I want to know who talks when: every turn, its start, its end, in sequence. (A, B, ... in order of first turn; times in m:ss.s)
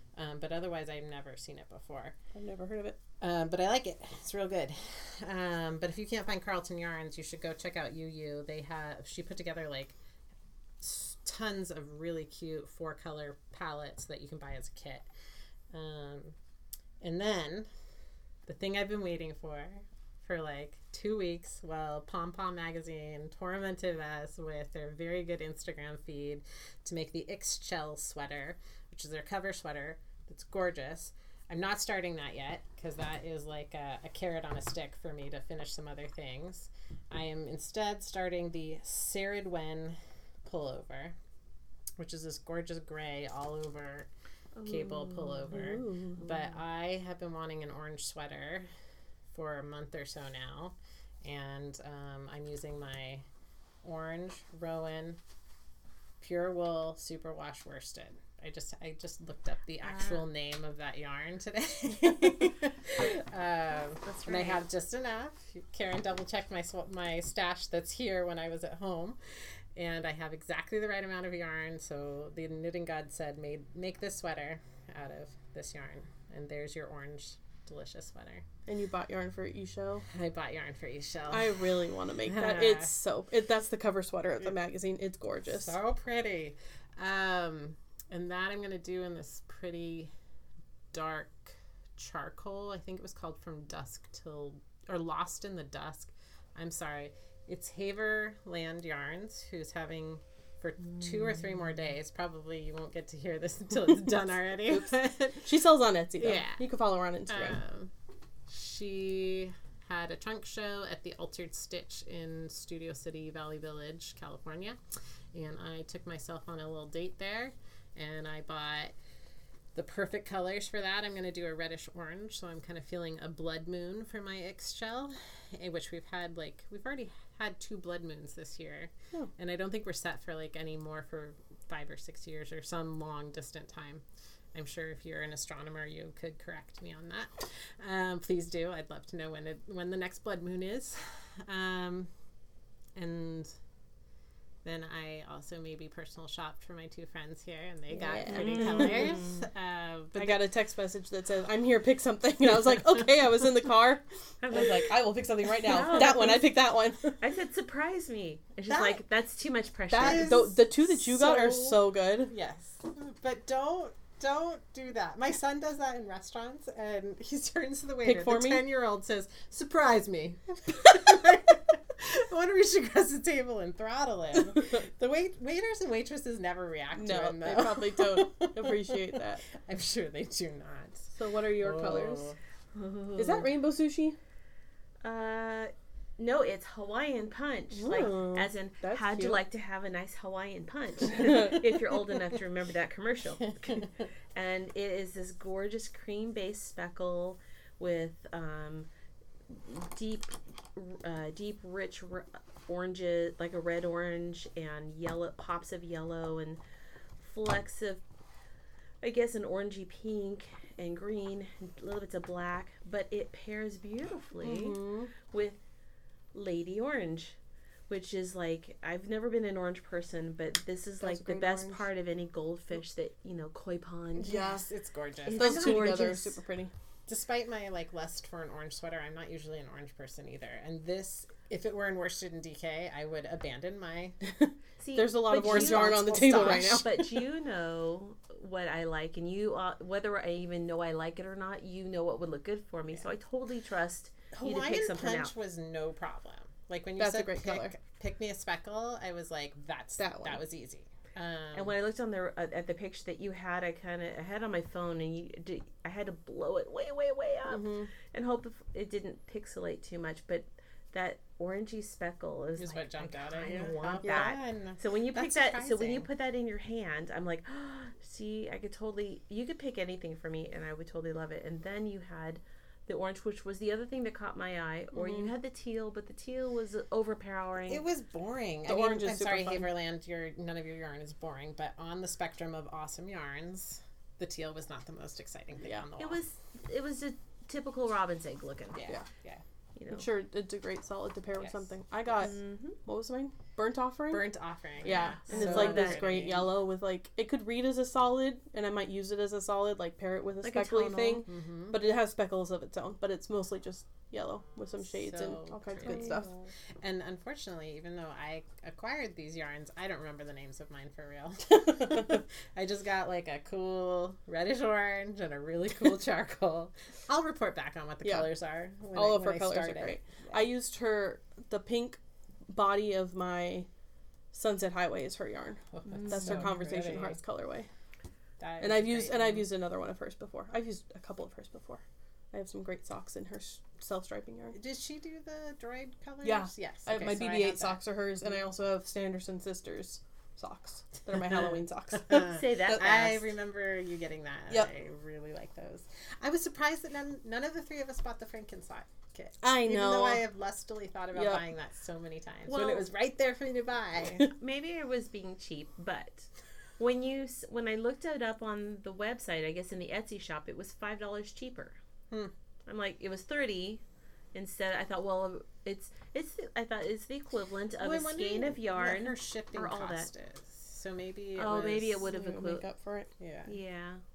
0:00.2-0:02.2 A
0:02.4-0:03.0 B
0:03.2-0:10.0 A
0:10.8-0:15.1 A
0:15.7-0:16.4 A
0:17.0-0:17.7 A
0:18.5-0:41.2 A
0:42.0-0:44.1 A
0:44.6-0:45.6 C
0:44.6-0:48.7 A
0:45.5-0:46.2 B
0:49.3-0:53.2 A
0:53.8-0:55.2 A
0:56.2-1:18.4 A
0:59.8-1:00.2 C
1:04.0-1:04.6 C
1:18.7-1:20.0 B
1:20.1-1:21.6 A
1:21.3-1:25.8 B
1:22.2-1:22.9 A
1:25.5-1:30.1 A
1:30.9-1:45.5 A
1:44.7-1:47.6 B
1:46.2-1:46.6 A
1:47.3-1:47.9 A
1:48.5-1:58.9 A
1:59.8-2:14.0 A
2:14.5-2:22.1 A
2:23.0-2:23.6 A
2:24.6-2:30.4 A
2:28.0-2:29.4 C
2:28.1-2:29.2 B
2:30.2-2:37.2 B
2:34.4-2:35.0 C
2:35.6-2:36.6 C
2:37.2-2:40.6 C
2:38.7-2:39.0 A
2:39.9-2:42.3 B
2:40.0-2:41.8 A
2:41.2-2:41.5 C
2:42.3-3:02.4 A
2:48.0-2:48.6 B
2:56.9-2:59.4 B
3:01.2-3:02.3 B
3:02.8-3:03.5 C
3:03.2-3:04.2 B
3:05.0-3:18.9 C
3:07.7-3:09.4 B
3:11.2-3:11.5 B
3:19.5-3:26.6 C
3:27.2-3:28.0 C
3:29.0-3:34.8 C
3:34.4-3:35.1 B
3:35.3-3:35.6 C
3:36.3-3:37.4 C
3:37.9-3:44.6 C
3:41.0-3:41.8 B
3:44.2-3:44.7 B
3:44.4-3:46.0 A
3:45.3-3:46.4 C
3:45.4-3:46.7 B
3:47.1-3:54.2 A
3:54.2-3:57.2 B
3:54.8-4:05.3 C
3:55.3-3:56.8 A
4:04.4-4:11.7 A
4:07.0-4:07.7 B
4:10.0-4:10.4 B
4:11.5-4:37.8 C
4:17.5-4:17.9 B
4:22.6-4:26.1 A
4:35.0-4:35.3 B
4:37.7-4:46.2 A
4:38.7-4:39.7 B
4:46.0-4:48.8 C
4:48.7-4:49.4 A
4:49.8-4:50.1 C
4:49.9-4:54.3 B
4:52.2-4:52.8 C
4:54.1-4:56.5 A
4:54.8-5:06.3 B
4:55.3-4:56.1 C
5:00.4-5:01.3 C
5:01.3-5:01.8 A
5:04.9-5:06.2 A
5:05.8-5:06.5 C
5:06.8-5:20.5 A
5:11.6-5:12.2 B
5:18.9-5:23.7 B
5:24.3-5:27.7 B
5:25.7-5:27.2 A
5:25.9-5:26.6 C
5:28.4-5:29.5 A
5:28.6-5:34.6 B
5:34.5-5:37.8 A
5:36.2-5:43.2 B
5:41.2-5:54.3 A
5:42.3-5:43.1 C
5:49.4-5:50.2 B
5:51.2-5:51.4 B
5:52.5-5:52.9 C
5:54.2-6:01.8 C
6:02.7-6:03.8 C
6:04.3-6:10.1 C
6:07.8-6:12.0 A
6:11.4-6:12.6 C
6:12.1-6:13.1 B
6:13.2-6:13.5 A
6:13.5-6:14.0 C